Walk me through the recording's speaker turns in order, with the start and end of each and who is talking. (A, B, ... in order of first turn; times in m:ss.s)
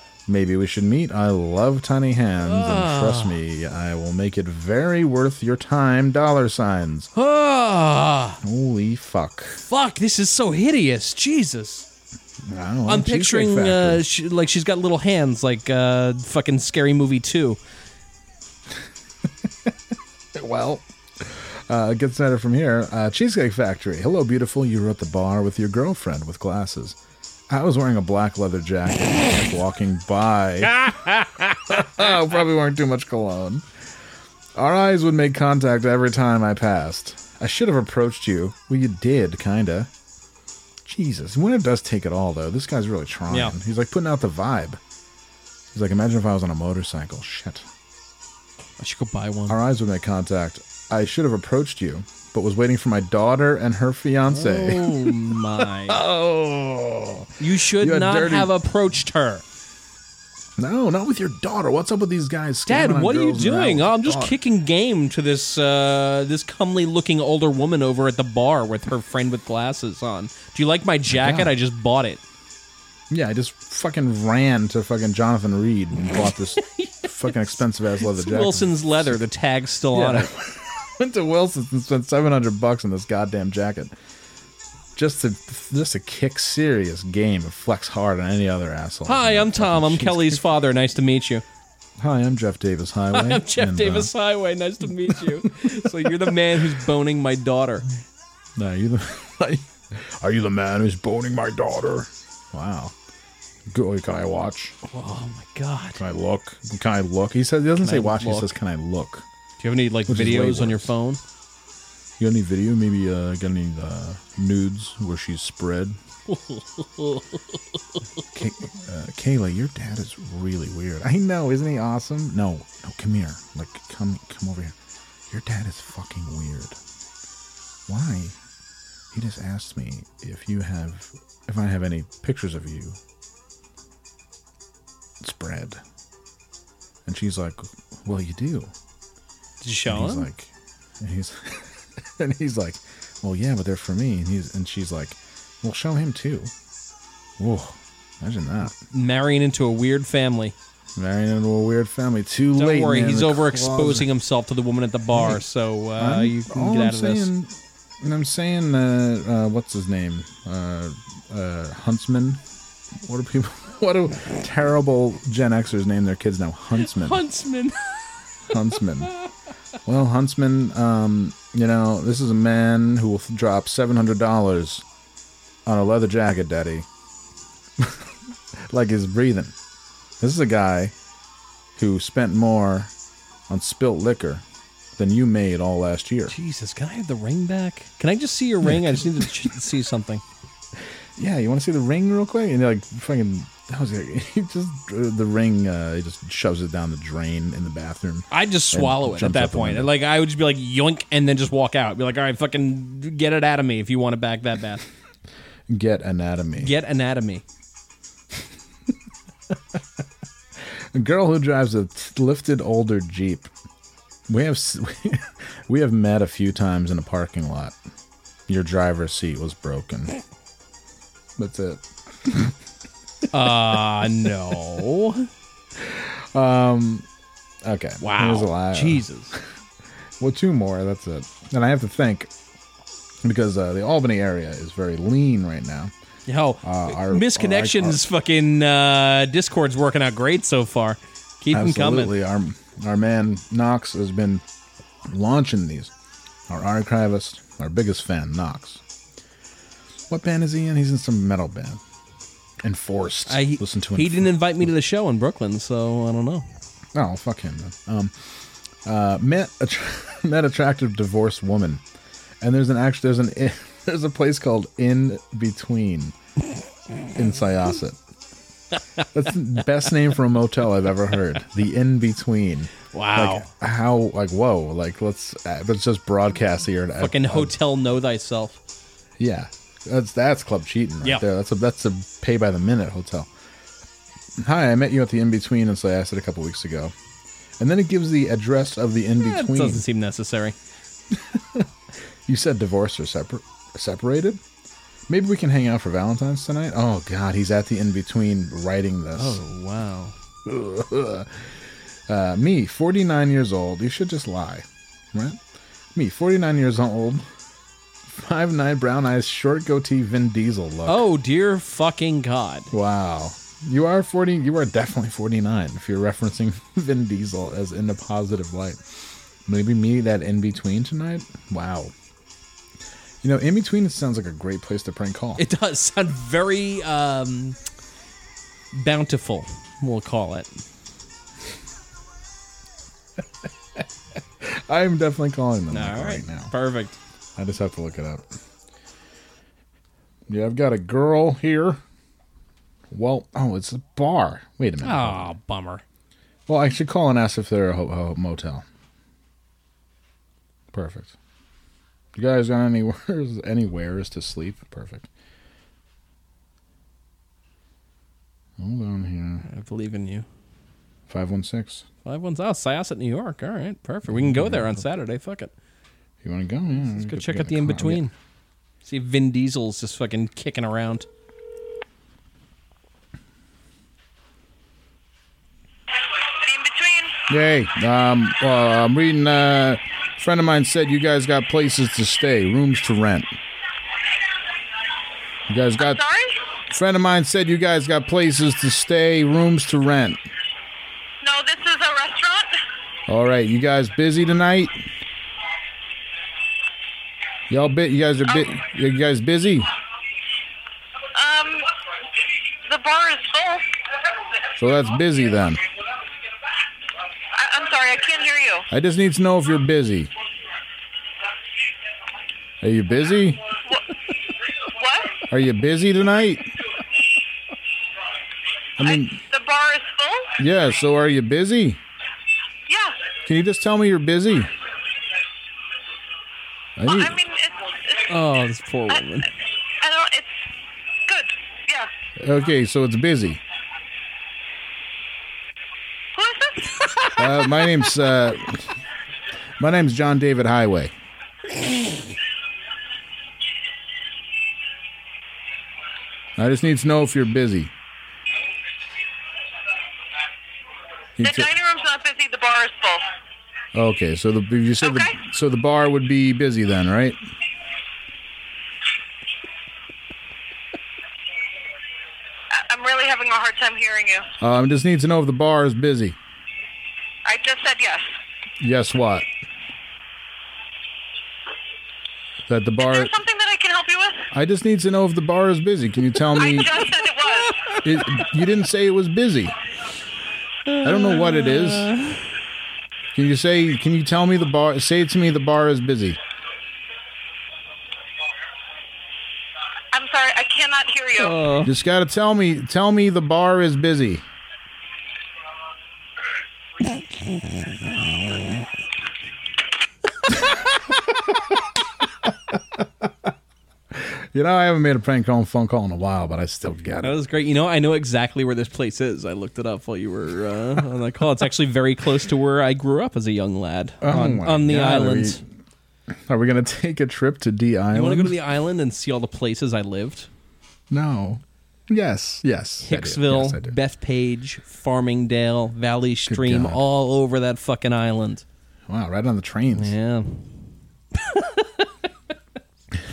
0:00.3-0:07.1 A
0:02.4-0:03.4 B
0:07.2-0:08.4 B
0:08.4-0:09.6 A
0:09.7-0:11.9 B
0:12.4-0:14.0 A
0:12.9-0:17.6 B
0:19.4-0:19.7 A
0:20.3-0:27.0 A
0:27.5-0:33.7 A
0:34.6-0:39.9 A
0:40.8-0:44.8 A
0:43.3-0:43.6 B
0:45.7-0:47.7 A
0:48.8-0:49.6 B
0:49.5-0:58.6 A
0:54.3-0:56.0 B
0:57.4-0:59.4 B
1:00.6-1:04.4 A
1:02.7-1:12.2 B
1:11.1-1:11.5 A
1:13.1-1:19.2 A
1:16.6-1:17.5 B
1:18.0-1:20.3 B
1:19.9-1:23.9 A
1:25.0-1:30.4 A
1:29.1-1:31.4 B
1:32.0-1:34.1 A
1:33.1-1:37.9 B
1:35.0-1:36.7 A
1:38.6-1:43.0 A
1:43.7-1:44.8 A
1:44.8-1:46.0 B
1:46.0-1:49.3 A
1:47.8-1:48.5 B
1:49.6-1:51.2 B
1:50.1-1:51.0 A
1:52.2-1:56.0 A
1:56.3-1:57.3 B
1:58.3-2:04.8 A
2:05.3-2:06.8 A
2:07.9-2:08.4 A
2:09.1-2:13.0 A
2:15.2-2:15.8 A
2:17.1-2:18.7 A
2:19.6-2:20.3 B
2:19.9-2:26.5 A
2:27.4-2:28.8 A
2:28.8-2:30.6 B
2:31.0-2:34.1 A
2:32.6-2:37.3 B
2:35.1-2:35.4 A
2:36.0-2:42.4 A
2:43.0-2:47.2 A
2:46.8-2:48.1 B
2:48.5-2:49.1 A
2:49.8-2:54.8 A
2:55.7-2:56.9 A
2:57.8-2:58.1 A
2:58.7-2:59.6 A
3:00.2-3:00.9 A
3:01.8-3:02.9 A
3:03.5-3:04.4 A
3:05.0-3:06.3 A
3:06.3-3:10.2 B
3:08.7-3:09.3 A
3:11.2-3:19.9 A
3:18.3-3:24.8 B
3:25.7-3:26.7 A
3:26.6-3:27.4 B
3:29.5-3:29.8 A
3:30.7-3:33.5 A
3:34.3-3:37.8 A
3:38.5-3:40.2 A
3:41.4-3:42.6 A
3:43.3-3:45.3 B
3:43.4-3:43.8 A
3:45.8-3:47.1 A
3:47.6-3:49.4 A
3:48.0-3:49.4 B
3:50.2-3:52.3 A
3:53.2-3:55.9 A
3:56.3-4:02.1 B
3:56.6-3:58.0 A
4:01.5-4:04.4 A
4:05.1-4:05.9 A
4:06.5-4:08.8 A
4:10.1-4:11.8 A
4:12.6-4:14.6 A
4:13.3-4:16.4 B
4:17.0-4:18.2 A
4:18.8-4:21.8 A
4:22.4-4:26.2 A
4:27.2-4:28.0 A
4:29.0-4:37.6 A
4:32.9-4:33.5 B
4:37.0-4:38.6 B
4:39.2-4:43.3 A
4:44.4-4:46.9 A
4:47.6-4:49.8 A
4:49.2-4:50.6 B
4:51.1-4:51.7 A
4:52.3-4:54.4 A
4:55.1-4:59.4 A
4:59.2-5:00.2 B
5:00.4-5:01.6 A
5:02.1-5:05.4 A
5:06.0-5:07.3 A
5:08.1-5:11.1 A
5:10.9-5:12.7 B
5:12.7-5:18.8 A
5:19.4-5:21.9 A
5:23.2-5:25.4 A
5:25.4-5:27.6 B
5:28.7-5:30.6 B
5:34.4-5:36.5 A
5:35.7-5:37.0 B
5:37.4-5:38.3 A
5:40.3-5:41.8 A
5:42.9-5:45.3 A
5:44.8-5:45.8 B
5:46.5-5:48.6 A
5:50.7-5:51.1 A
5:52.2-5:55.1 A
5:58.6-5:59.5 A
5:59.4-6:00.3 B
6:01.1-6:01.9 A
6:02.0-6:05.5 B
6:04.1-6:04.7 A
6:06.2-6:08.0 A
6:06.8-6:08.1 B
6:08.8-6:11.1 B
6:16.3-6:17.2 C
6:17.3-6:23.3 A
6:25.5-6:26.0 A
6:25.8-6:26.4 C
6:26.7-6:30.2 A
6:31.2-6:32.6 C
6:33.1-6:34.8 A
6:37.5-6:39.7 A
6:38.3-6:38.5 C
6:41.2-6:41.7 C
6:42.7-6:43.6 C
6:44.6-6:45.6 A
6:47.4-6:48.6 C
6:48.7-6:50.1 A
6:52.6-6:53.4 A
6:54.7-6:55.2 C
6:55.3-6:56.5 A
6:58.8-6:59.2 A
6:58.8-7:00.3 C
7:00.4-7:01.8 A
7:02.7-7:03.1 C
7:03.3-7:04.5 A
7:06.8-7:07.2 A
7:06.9-7:08.1 C
7:08.1-7:09.3 B
7:09.8-7:10.3 C
7:11.1-7:11.9 C
7:12.2-7:13.4 A
7:16.2-7:17.7 C
7:17.2-7:18.8 A
7:19.6-7:20.9 A
7:26.4-7:27.7 A
7:31.2-7:31.5 A
7:31.2-7:33.0 C
7:33.8-7:37.2 A
7:34.8-7:35.2 C
7:42.5-7:44.3 C
7:44.4-7:46.2 A
7:47.3-7:48.1 C
7:48.6-7:49.3 A
7:52.5-7:53.1 A
7:52.8-7:54.3 C
7:54.3-7:56.8 A
7:56.4-7:57.8 C
7:57.8-7:59.6 A
8:00.7-8:02.2 B
8:00.8-8:01.9 A
8:03.1-8:06.2 A
8:09.9-8:11.4 C
8:11.2-8:11.7 B
8:11.6-8:14.2 A
8:22.2-8:23.1 A
8:23.9-8:27.2 A
8:27.0-8:35.4 B
8:34.0-8:35.4 A
8:36.3-8:38.4 A
8:37.9-8:40.3 B
8:40.9-8:43.8 A
8:42.8-8:48.4 B
8:46.3-8:46.8 A
8:48.9-8:49.9 A
8:49.8-8:50.5 B
8:51.2-8:51.9 B